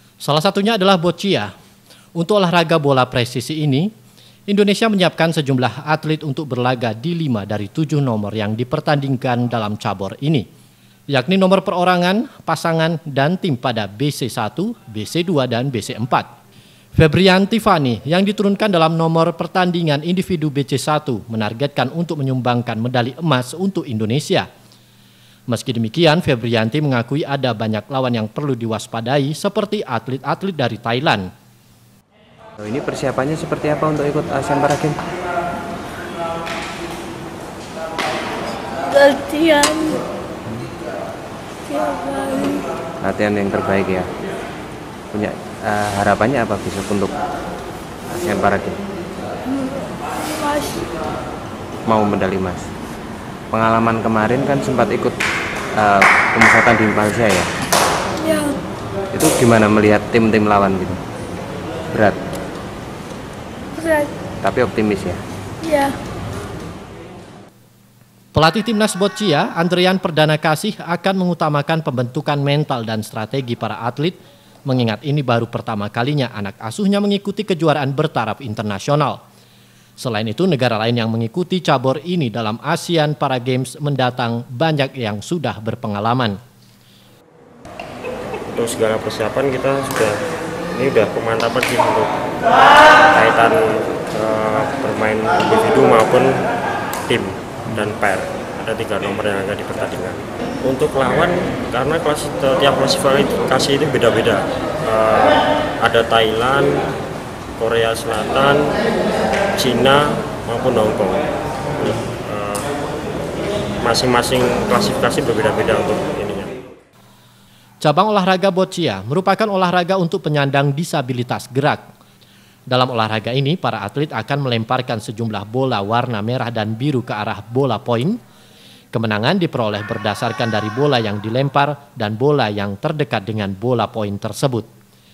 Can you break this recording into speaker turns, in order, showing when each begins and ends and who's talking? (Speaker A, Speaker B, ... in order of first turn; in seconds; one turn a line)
Speaker A: 0.2-1.5
Speaker A: 2.2-3.9
Speaker A: 4.5-10.5
Speaker A: 11.1-16.3
Speaker A: 17.0-24.5
Speaker A: 25.5-31.3
Speaker B: 32.6-35.0
Speaker C: 38.8-40.0
Speaker C: 41.7-42.7
Speaker B: 43.0-44.1
Speaker B: 45.1-47.2
Speaker B: 48.1-48.8
Speaker C: 49.5-50.9
Speaker B: 51.9-52.7
Speaker B: 53.5-55.2
Speaker B: 55.8-57.5
Speaker C: 58.2-58.6
Speaker B: 59.1-61.0
Speaker B: 61.9-62.2
Speaker C: 63.8-64.1
Speaker B: 64.4-65.2
Speaker C: 65.6-66.0
Speaker A: 68.3-79.2
Speaker A: 80.0-86.4
Speaker D: 88.5-90.2
Speaker D: 90.7-92.2
Speaker D: 93.1-96.4
Speaker D: 97.1-106.9
Speaker D: 107.6-108.8
Speaker D: 109.6-111.3
Speaker D: 111.8-112.7
Speaker D: 113.8-116.6
Speaker A: 117.8-121.8
Speaker A: 122.7-128.2
Speaker A: 128.9-134.7